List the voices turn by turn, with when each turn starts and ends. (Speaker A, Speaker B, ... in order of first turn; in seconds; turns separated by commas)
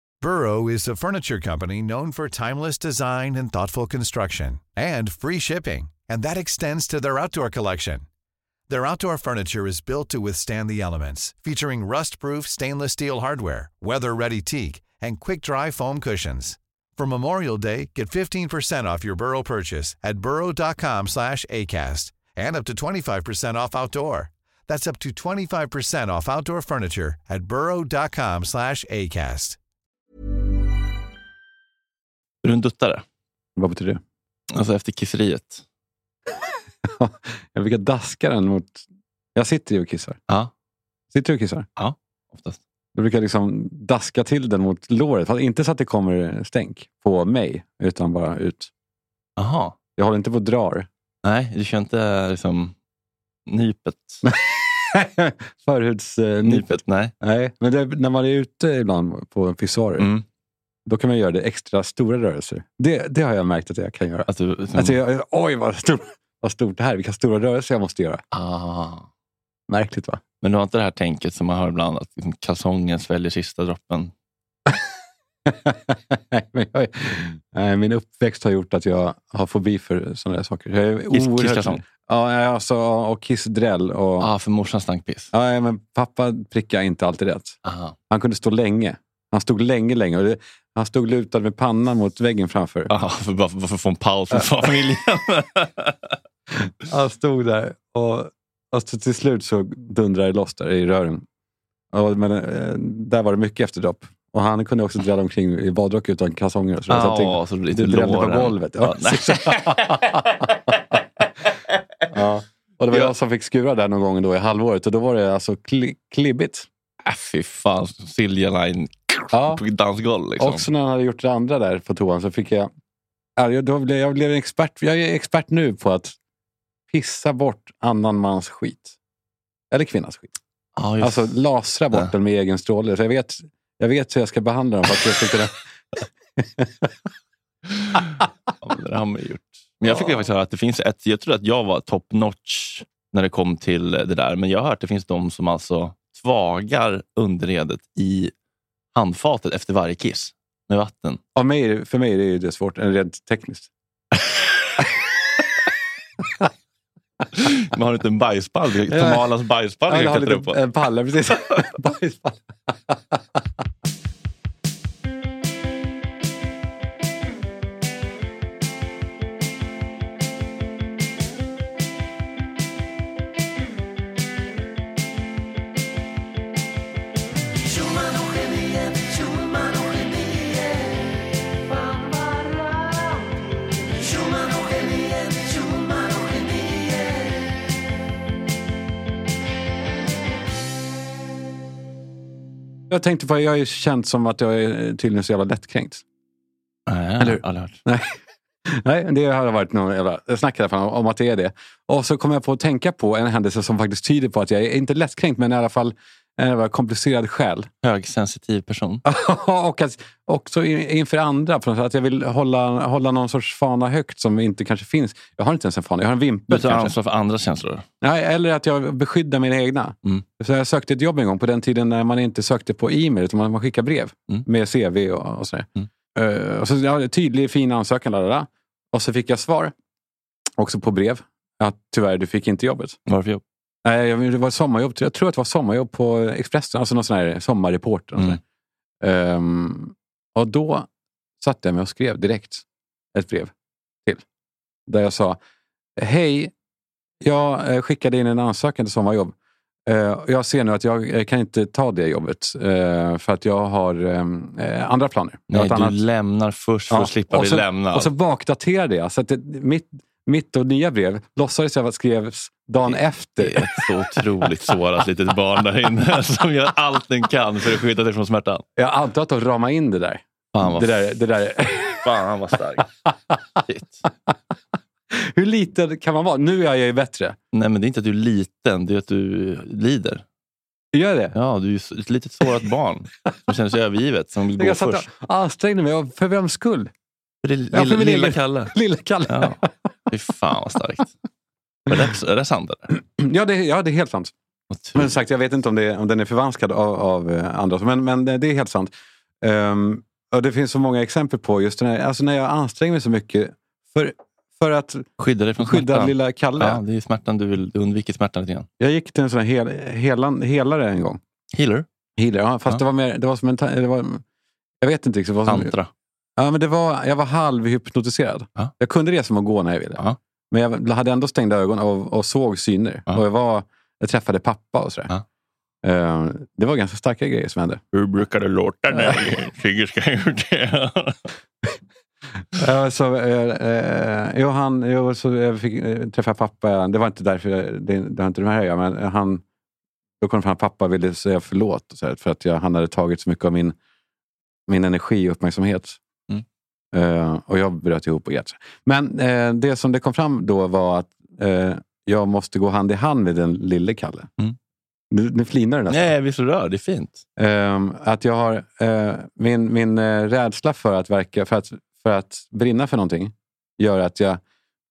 Speaker A: 0.2-8.0, Speaker A: 8.7-29.6, Speaker B: 32.4-33.0, Speaker C: 33.6-34.0, Speaker B: 34.5-35.6, Speaker C: 36.8-38.8, Speaker C: 39.3-40.2, Speaker C: 41.1-41.7, Speaker B: 41.8-42.6, Speaker C: 43.0-48.7, Speaker B: 49.4-49.8, Speaker C: 50.0-50.9, Speaker B: 51.2-52.7, Speaker B: 53.5-54.2, Speaker C: 54.2-60.1, Speaker B: 56.5-57.1, Speaker B: 60.0-60.2, Speaker C: 60.9-68.2, Speaker B: 64.3-65.0, Speaker B: 68.3-69.1, Speaker C: 69.7-70.2, Speaker B: 70.4-74.1, Speaker C: 75.5-84.3, Speaker B: 81.1-81.8, Speaker B: 84.2-85.3, Speaker C: 85.3-87.6, Speaker B: 87.7-88.0, Speaker C: 88.1-92.9, Speaker B: 92.9-95.9, Speaker C: 96.7-101.2, Speaker C: 101.9-111.0, Speaker B: 106.9-109.8, Speaker C: 112.1-116.7, Speaker B: 117.0-120.6, Speaker C: 119.3-119.6, Speaker C: 120.4-122.7, Speaker C: 123.4-126.2, Speaker C: 126.9-129.0, Speaker C: 129.7-130.3, Speaker B: 130.8-131.4, Speaker C: 131.0-135.6, Speaker C: 136.4-136.9, Speaker B: 137.7-138.1, Speaker B: 138.6-148.3, Speaker C: 139.8-140.1, Speaker B: 148.9-151.2, Speaker C: 151.3-153.7, Speaker B: 157.4-160.6, Speaker C: 158.9-159.3, Speaker C: 159.9-163.2, Speaker C: 192.9-196.0, Speaker B: 196.9-197.8, Speaker C: 197.2-198.1, Speaker C: 198.7-207.7, Speaker B: 207.8-209.0, Speaker C: 209.1-216.9, Speaker B: 216.5-217.8, Speaker C: 218.0-229.7, Speaker C: 230.6-233.0, Speaker B: 233.1-233.4, Speaker C: 233.8-238.4, Speaker C: 239.0-240.9, Speaker C: 241.4-243.5, Speaker C: 244.9-245.4, Speaker C: 246.0-246.5, Speaker C: 247.2-249.3, Speaker C: 249.9-256.0, Speaker B: 255.5-258.1, Speaker C: 256.9-264.2, Speaker B: 262.9-268.6, Speaker C: 268.8-272.0, Speaker B: 270.5-271.2, Speaker B: 272.0-272.9, Speaker B: 273.6-274.0, Speaker C: 275.1-277.4, Speaker B: 277.5-280.2, Speaker C: 280.9-281.3, Speaker B: 281.3-285.1, Speaker C: 284.6-286.9, Speaker B: 287.4-288.7, Speaker C: 287.7-289.7, Speaker B: 289.3-289.6, Speaker B: 290.1-291.1, Speaker B: 291.9-292.9, Speaker C: 293.1-294.3, Speaker B: 294.7-295.1, Speaker C: 294.9-305.1, Speaker B: 305.2-308.7, Speaker C: 305.6-306.8, Speaker C: 308.8-311.2, Speaker B: 311.5-311.9, Speaker C: 312.2-314.2, Speaker C: 314.8-315.7, Speaker B: 315.5-315.9, Speaker C: 316.4-325.1, Speaker C: 325.8-327.8, Speaker B: 327.9-331.2, Speaker C: 332.5-339.4, Speaker C: 340.2-343.8, Speaker C: 344.7-346.0, Speaker C: 346.9-354.3, Speaker C: 355.1-356.1, Speaker B: 355.9-357.2, Speaker C: 357.4-364.4